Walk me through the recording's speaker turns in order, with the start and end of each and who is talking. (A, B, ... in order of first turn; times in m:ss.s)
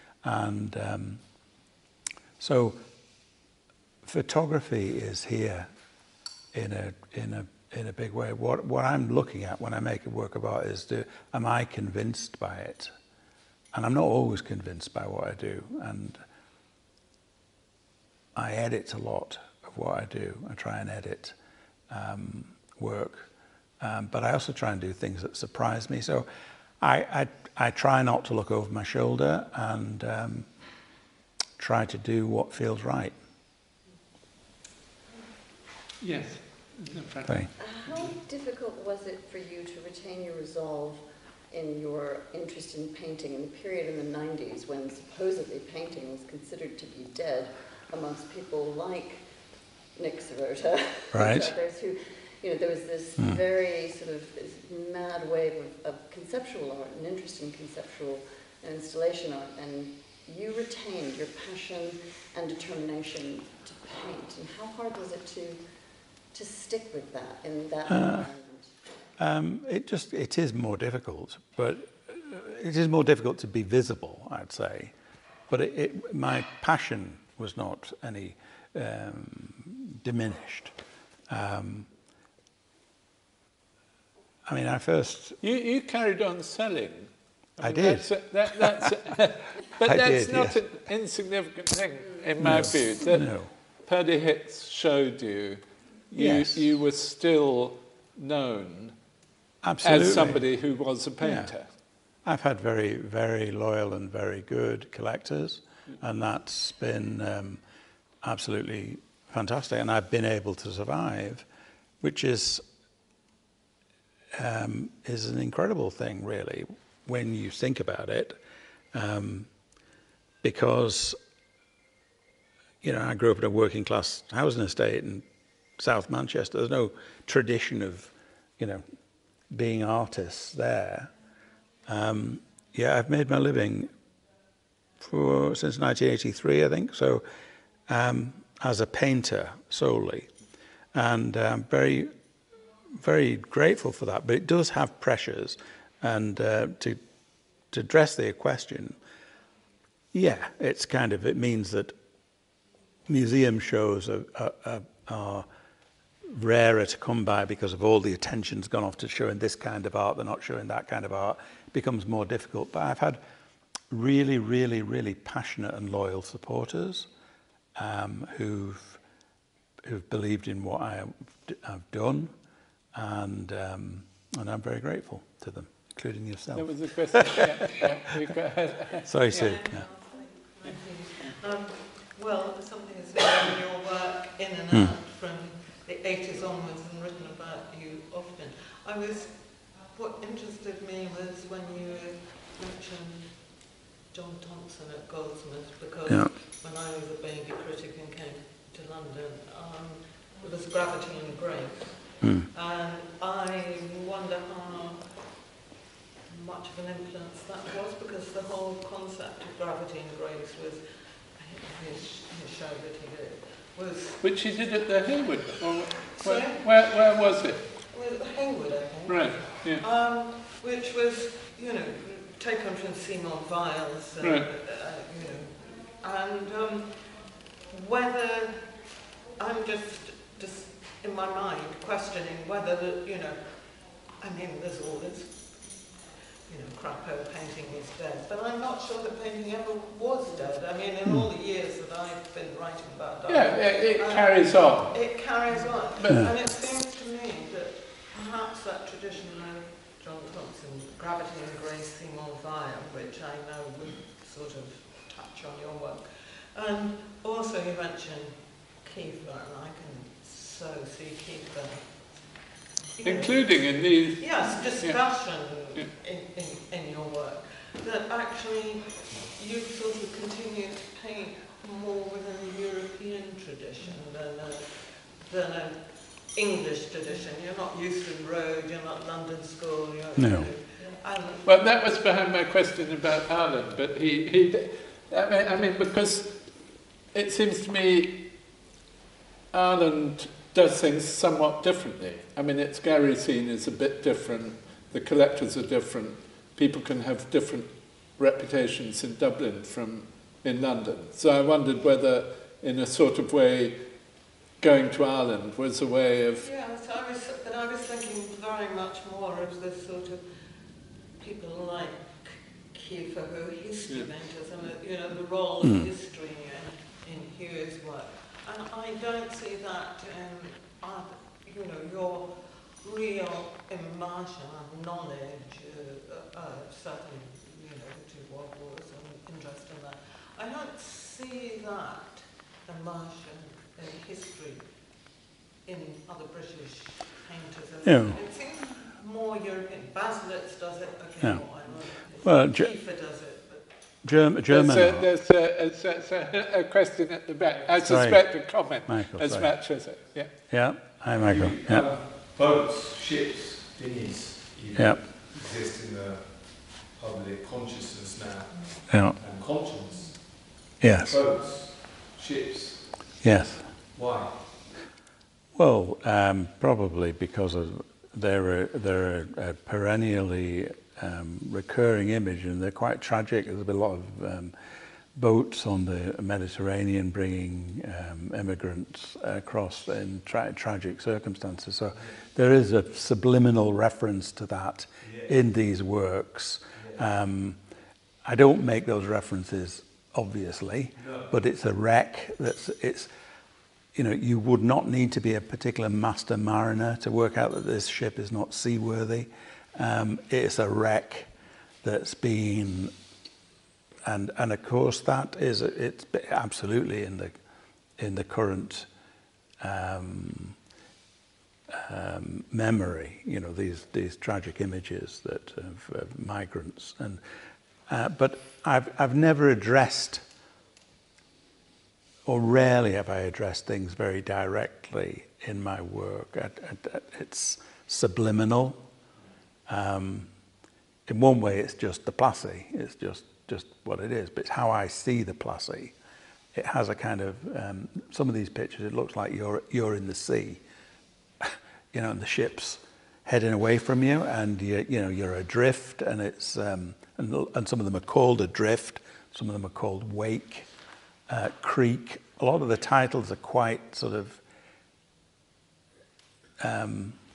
0:00.2-0:01.2 A
0:02.4-0:02.8 A
0:04.0-0:05.7 A
0:06.5-0:12.9 A
0:13.7-0:16.2 A
0:18.3-0:21.4 A
0:21.9-0:26.3 A
0:26.8-0:30.5 A
0:31.6-0:33.1 A
0:36.0-0:38.1 B
0:37.2-0:37.5 A
0:37.6-0:49.3 C
0:49.9-1:05.6 C
0:51.1-0:51.6 A
1:06.3-1:08.7 C
1:07.9-1:08.3 A
1:09.2-1:14.9 A
1:15.5-1:20.7 A
1:21.3-1:21.9 A
1:24.5-1:25.4 A
1:25.4-1:33.3 B
1:27.6-1:28.9 A
1:29.8-1:30.6 A
1:32.4-1:33.5 A
1:33.8-1:38.9 B
1:36.2-1:36.6 A
1:39.6-1:40.4 A
1:39.8-1:41.7 B
1:41.2-1:41.5 A
1:42.2-1:47.6 A
1:48.2-1:51.4 A
1:52.0-1:52.6 A
1:54.3-1:58.4 A
1:58.9-1:59.5 A
2:00.4-2:01.2 A
2:02.8-2:05.2 A
2:05.8-2:08.8 A
2:09.5-2:11.1 A
2:11.9-2:13.9 A
2:15.0-2:17.2 A
2:17.9-2:20.3 A
2:20.9-2:22.1 A
2:22.9-2:27.0 A
2:27.7-2:29.0 A
2:30.1-2:31.9 A
2:33.1-2:35.4 A
2:36.2-2:43.2 A
2:43.9-2:47.1 A
2:47.8-2:49.0 A
2:49.8-2:52.3 A
2:52.9-2:57.7 A
2:56.5-2:59.5 B
2:59.0-2:59.8 A
2:59.3-3:25.2 D
3:22.2-3:22.5 A
3:26.3-3:34.5 D
3:34.2-3:37.6 B
3:36.1-3:37.0 D
3:37.7-3:55.9 D
3:39.1-3:39.8 B
3:44.2-3:44.5 B
3:56.4-4:41.5 D
4:03.3-4:05.3 B
4:05.9-4:06.2 B
4:23.0-4:25.9 B
4:40.2-4:40.5 A
4:41.4-4:48.3 B
4:49.5-5:04.0 B
5:04.6-5:06.5 B
5:06.4-5:10.5 D
5:11.2-5:34.7 D
5:15.6-5:15.9 A
5:35.6-5:43.8 D
5:37.8-5:38.2 A
5:42.2-5:42.7 A
5:44.0-5:45.1 A
5:44.5-5:50.3 B
5:47.8-5:49.6 A
5:50.5-5:51.9 A
5:51.2-6:03.2 E
5:54.7-5:55.1 A
5:58.9-5:59.2 A
6:00.8-6:01.2 A
6:03.2-6:03.6 A
6:03.9-6:04.7 E
6:05.5-6:14.5 A
6:15.1-6:27.6 A
6:25.0-6:25.3 E
6:26.8-6:27.0 E
6:28.2-6:33.1 A
6:31.0-6:31.3 E
6:33.9-6:41.3 A
6:41.8-6:42.9 A
6:44.0-6:47.4 A
6:48.0-6:48.9 A
6:49.6-6:50.6 A
6:51.7-6:57.2 A
6:57.9-7:00.2 A
7:02.2-7:08.8 A
7:09.7-7:10.3 A
7:11.1-7:15.9 A
7:16.5-7:20.6 A
7:21.4-7:30.7 A
7:31.3-7:34.4 A
7:36.6-7:37.2 A